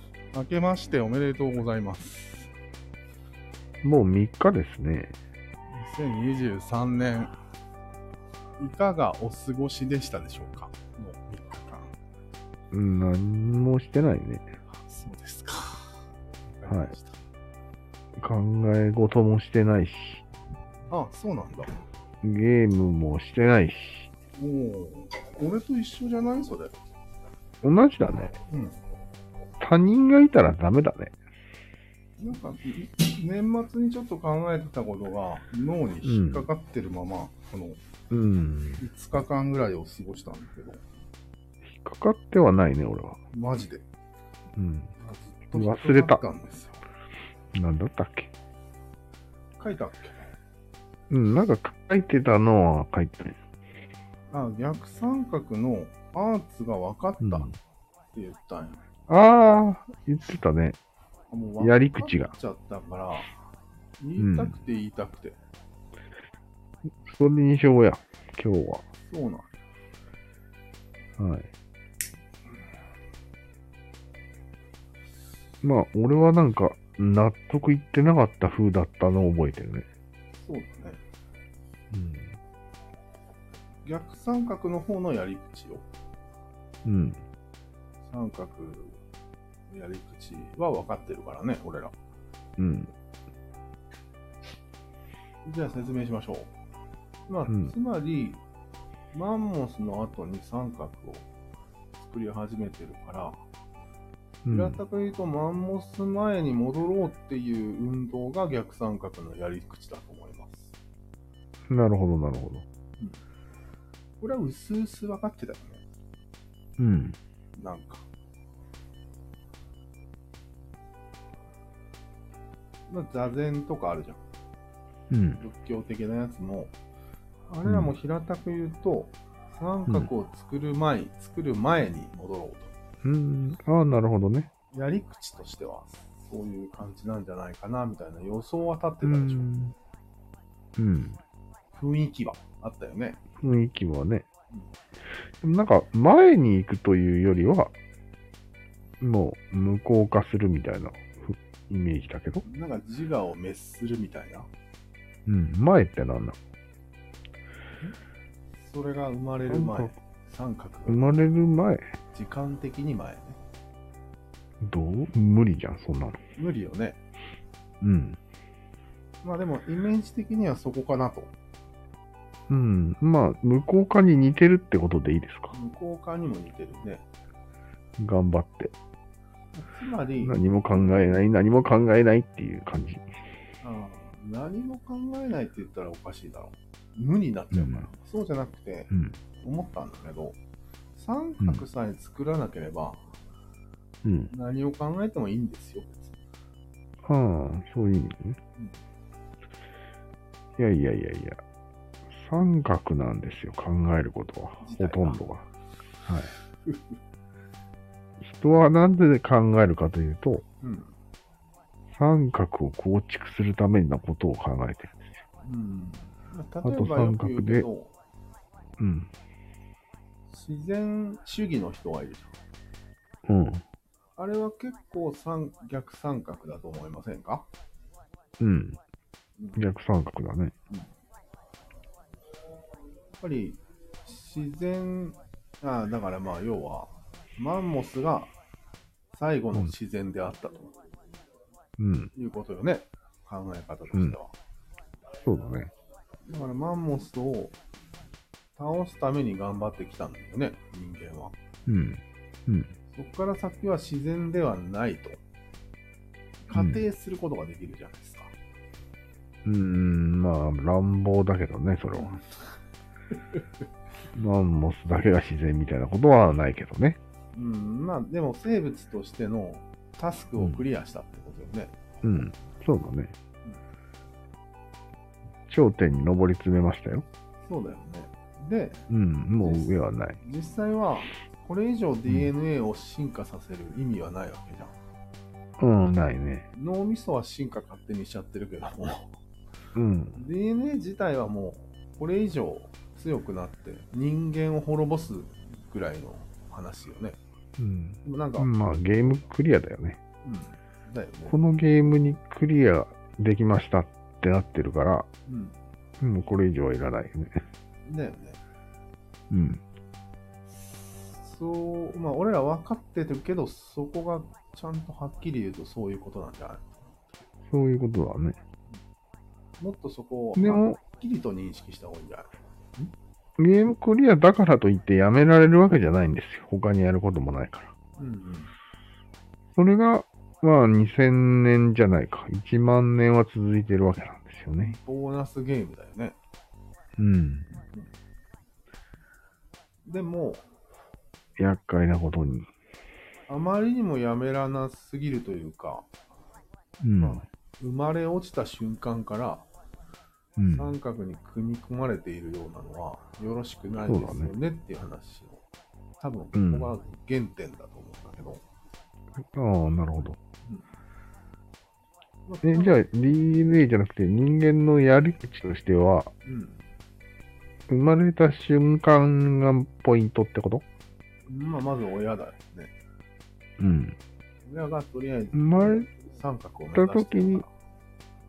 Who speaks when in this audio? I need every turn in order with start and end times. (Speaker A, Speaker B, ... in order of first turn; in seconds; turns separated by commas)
Speaker A: 0.3-2.5, Speaker B: 3.8-5.2, Speaker A: 5.7-7.3, Speaker A: 8.6-11.9, Speaker B: 12.7-14.5, Speaker A: 14.8-16.0, Speaker A: 16.6-17.2, Speaker B: 16.7-16.9, Speaker B: 18.2-20.2, Speaker A: 20.9-21.8, Speaker B: 22.2-24.1, Speaker A: 24.4-26.7, Speaker B: 27.6-28.4, Speaker A: 28.5-28.8, Speaker B: 29.6-31.1, Speaker A: 32.2-37.8, Speaker B: 36.0-36.5, Speaker B: 38.1-38.8, Speaker A: 38.8-40.8, Speaker B: 41.6-43.2, Speaker A: 43.3-43.8, Speaker B: 44.6-44.9, Speaker A: 45.0-46.8, Speaker B: 45.5-46.2, Speaker B: 47.5-48.3, Speaker A: 49.6-50.3, Speaker B: 51.1-53.4, Speaker A: 54.3-57.5, Speaker B: 57.2-57.5, Speaker A: 58.1-58.8, Speaker B: 59.1-60.8, Speaker A: 61.3-63.3, Speaker B: 61.6-62.3, Speaker A: 64.0-65.4, Speaker B: 64.2-64.6, Speaker B: 67.0-68.8, Speaker A: 69.1-69.5, Speaker B: 71.2-71.5, Speaker B: 75.6-79.9, Speaker A: 80.4-81.0, Speaker B: 81.9-82.4, Speaker A: 83.8-85.8, Speaker B: 86.8-87.2, Speaker A: 88.1-89.0, Speaker A: 89.7-91.9, Speaker B: 92.6-92.9, Speaker A: 95.5-96.5, Speaker A: 97.3-98.4, Speaker B: 97.5-97.7, Speaker A: 99.1-101.3, Speaker A: 102.0-103.4, Speaker B: 104.5-104.8, Speaker A: 104.5-110.7, Speaker B: 111.7-112.7, Speaker A: 114.2-115.8, Speaker B: 116.8-117.2, Speaker A: 117.6-118.0, Speaker A: 122.9-124.2, Speaker B: 125.1-125.4, Speaker A: 125.4-126.7, Speaker A: 127.5-132.7, Speaker B: 127.7-128.0, Speaker B: 133.0-134.5, Speaker A: 134.7-139.5, Speaker B: 139.0-139.7, Speaker B: 140.8-141.2, Speaker A: 141.7-143.2, Speaker B: 143.4-144.3, Speaker B: 145.4-147.7, Speaker B: 149.0-152.4, Speaker A: 152.4-154.5, Speaker B: 155.3-156.4, Speaker A: 158.6-161.2, Speaker B: 159.5-159.9, Speaker B: 160.9-161.8, Speaker A: 162.1-163.4, Speaker B: 164.6-166.2, Speaker A: 166.4-167.0, Speaker B: 167.8-168.2, Speaker A: 169.2-171.3, Speaker B: 172.5-175.5, Speaker A: 175.5-177.1, Speaker B: 178.0-178.7, Speaker A: 179.6-180.5, Speaker B: 180.2-183.1, Speaker A: 183.6-190.4, Speaker B: 187.5-187.9, Speaker B: 188.9-189.2, Speaker A: 191.0-193.1, Speaker B: 194.0-194.3, Speaker A: 194.3-196.1, Speaker B: 197.1-198.4, Speaker B: 200.6-201.4, Speaker B: 202.1-205.4, Speaker A: 204.6-205.2, Speaker B: 206.1-206.3, Speaker B: 208.2-210.4, Speaker A: 210.6-210.9, Speaker B: 211.9-215.0, Speaker A: 215.4-217.9, Speaker B: 216.6-217.7, Speaker B: 218.8-219.1, Speaker A: 220.3-222.3, Speaker B: 223.3-223.6, Speaker A: 224.2-227.5, Speaker B: 228.4-228.8, Speaker B: 229.6-230.5, Speaker A: 233.2-238.3, Speaker A: 239.1-240.7, Speaker B: 241.8-242.1, Speaker A: 242.2-244.3, Speaker B: 245.2-245.7, Speaker A: 246.3-247.5, Speaker A: 248.6-251.3, Speaker B: 251.7-252.7, Speaker A: 252.9-255.2, Speaker A: 256.5-258.3, Speaker B: 256.6-256.8, Speaker B: 259.4-262.1, Speaker A: 261.9-262.6, Speaker B: 264.1-267.0, Speaker A: 267.3-271.7, Speaker B: 270.4-270.6, Speaker B: 272.0-273.1, Speaker B: 275.5-277.1, Speaker A: 277.4-278.8, Speaker B: 278.9-280.2, Speaker A: 279.4-284.8, Speaker B: 285.6-286.5, Speaker A: 286.5-289.1, Speaker B: 289.8-290.2, Speaker A: 290.1-297.2, Speaker B: 297.6-300.0, Speaker A: 298.1-298.5, Speaker A: 300.2-301.4, Speaker B: 301.3-305.1, Speaker A: 305.3-305.6, Speaker B: 306.0-307.4, Speaker A: 307.9-308.4, Speaker B: 309.3-309.6, Speaker A: 310.5-316.8, Speaker B: 317.5-318.4, Speaker A: 319.6-322.9, Speaker B: 320.4-320.8, Speaker B: 323.4-327.7, Speaker A: 328.0-328.5, Speaker B: 329.6-334.8, Speaker A: 334.6-336.2, Speaker B: 337.0-337.5, Speaker A: 339.9-340.4, Speaker B: 341.4-342.5, Speaker A: 343.3-345.9, Speaker B: 346.8-347.2, Speaker A: 347.0-349.5, Speaker B: 350.4-350.7, Speaker A: 350.4-355.4, Speaker B: 353.9-354.3, Speaker A: 356.0-358.4, Speaker B: 356.3-356.8, Speaker B: 359.2-360.2, Speaker A: 362.3-362.8, Speaker B: 362.4-366.1, Speaker A: 366.2-366.6, Speaker B: 367.7-370.6, Speaker A: 371.3-372.7, Speaker B: 373.6-374.0, Speaker A: 374.4-377.5, Speaker B: 375.3-375.9, Speaker B: 376.7-377.4